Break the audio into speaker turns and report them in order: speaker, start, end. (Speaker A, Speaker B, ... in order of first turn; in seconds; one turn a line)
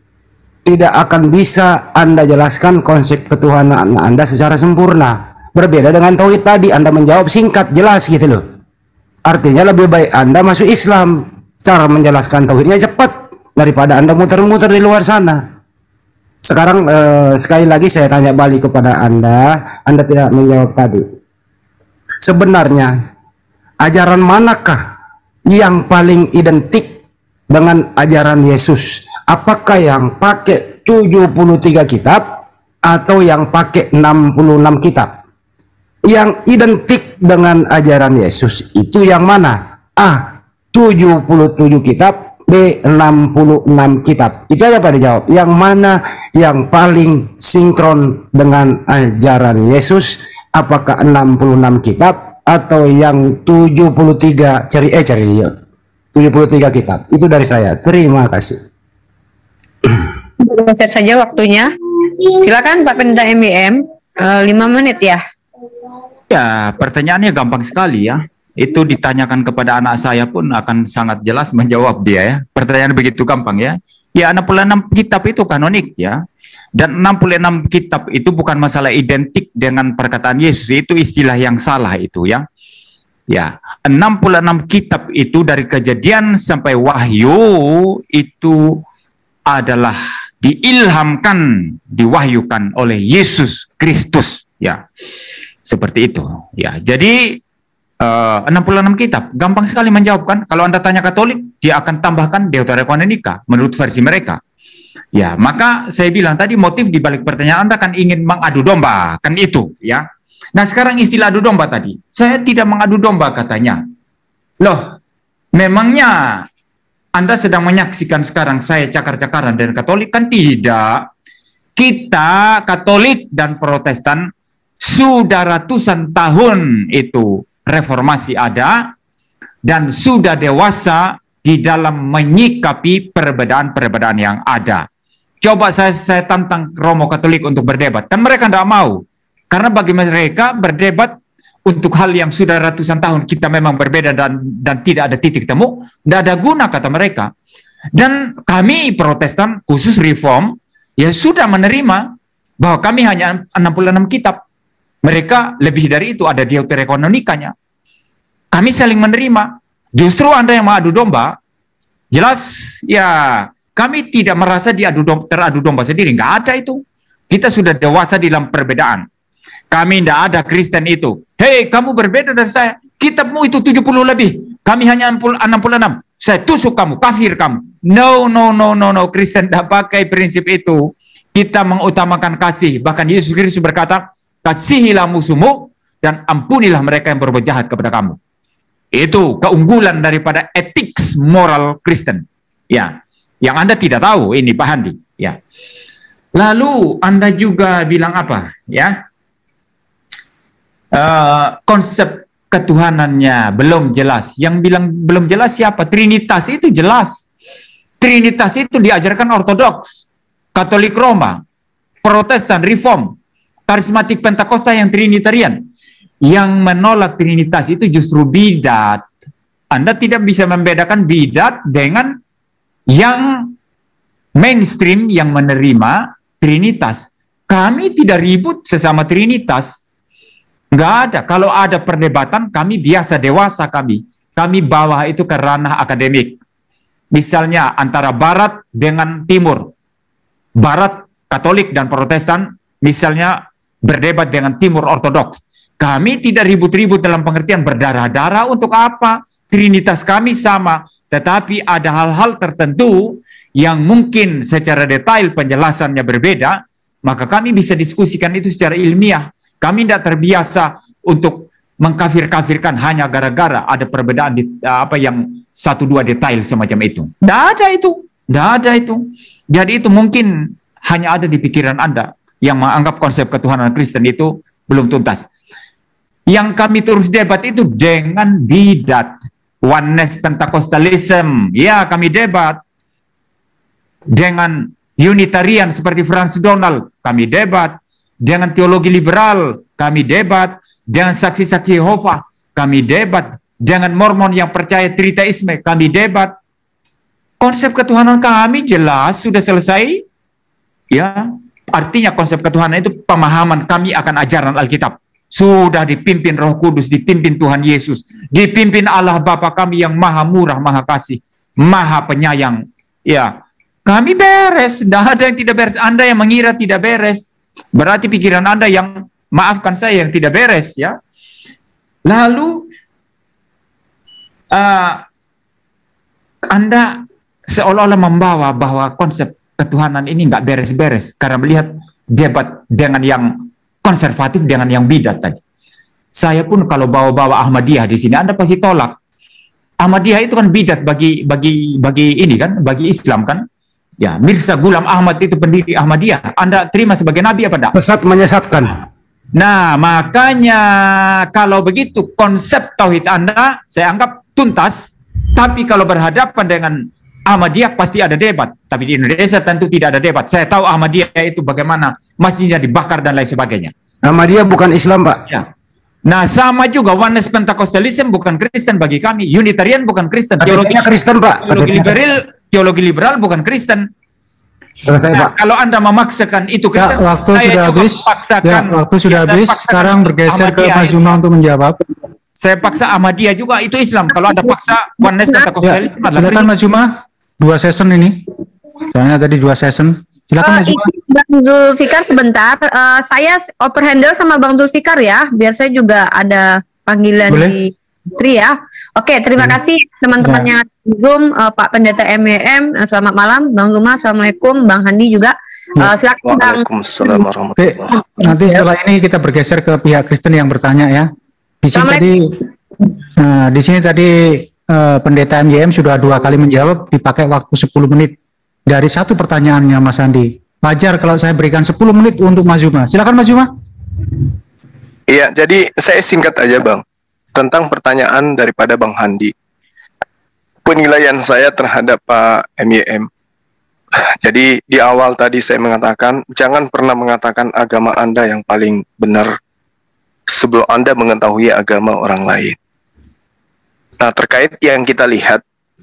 Speaker A: 0.7-8.4
Speaker A: 9.3-15.4
Speaker A: 16.4-21.0
Speaker A: 22.2-22.9
Speaker A: 23.8-24.8
Speaker A: 25.5-26.9
Speaker A: 27.5-35.1
Speaker A: 36.1-55.5
Speaker A: 56.1-58.6
Speaker B: 60.4-61.7
Speaker B: 62.4-65.2
Speaker C: 66.3-76.2
Speaker C: 76.8-82.5
Speaker C: 83.3-88.8
Speaker C: 89.5-94.8
Speaker C: 95.7-97.4
Speaker C: 98.0-104.4
Speaker C: 105.1-113.8
Speaker C: 114.6-115.0
Speaker C: 115.5-116.5
Speaker C: 117.2-121.1
Speaker C: 121.8-124.3
Speaker C: 124.8-128.9
Speaker C: 129.7-134.9
Speaker C: 135.4-141.2
Speaker C: 141.7-147.3
Speaker C: 148.0-154.4
Speaker C: 155.0-157.5
Speaker C: 158.5-161.4
Speaker C: 162.1-169.1
Speaker C: 169.7-188.2
Speaker C: 188.9-195.4
Speaker C: 196.3-199.0
Speaker C: 200.9-207.3
Speaker C: 208.0-211.4
Speaker C: 212.0-213.2
Speaker C: 213.7-215.7
Speaker C: 216.2-219.1
Speaker C: 219.7-222.2
Speaker C: 222.9-223.6
Speaker C: 224.4-229.8
Speaker C: 230.7-236.4
Speaker C: 237.1-239.7
Speaker C: 240.6-275.3
Speaker C: 276.3-282.6
Speaker C: 284.1-296.3
Speaker C: 297.4-300.1
Speaker C: 300.9-313.4
Speaker C: 313.9-321.0
Speaker C: 322.1-322.7
Speaker C: 324.5-325.0
Speaker C: 326.5-335.4
Speaker C: 336.1-339.0
Speaker C: 339.8-343.4
Speaker C: 344.0-347.7
Speaker A: 347.7-348.8
Speaker C: 349.4-363.7
Speaker A: 364.1-365.2
Speaker C: 366.1-370.9
Speaker A: 370.4-372.0
Speaker C: 371.4-373.9
Speaker A: 374.8-375.3
Speaker C: 375.1-381.2
Speaker D: 376.8-381.8
Speaker C: 382.4-386.6
Speaker D: 385.6-388.2
Speaker D: 388.9-390.9
Speaker B: 390.4-407.2
Speaker D: 400.2-400.5
Speaker E: 406.2-407.9
Speaker D: 407.6-411.1
Speaker B: 408.3-408.6
Speaker D: 411.6-412.4
Speaker B: 411.7-412.1
Speaker D: 413.2-418.2
Speaker D: 418.7-423.5
Speaker E: 425.1-426.8
Speaker E: 427.3-429.3
Speaker E: 430.6-433.1
Speaker E: 434.0-439.3
Speaker E: 440.3-442.6
Speaker E: 444.0-445.4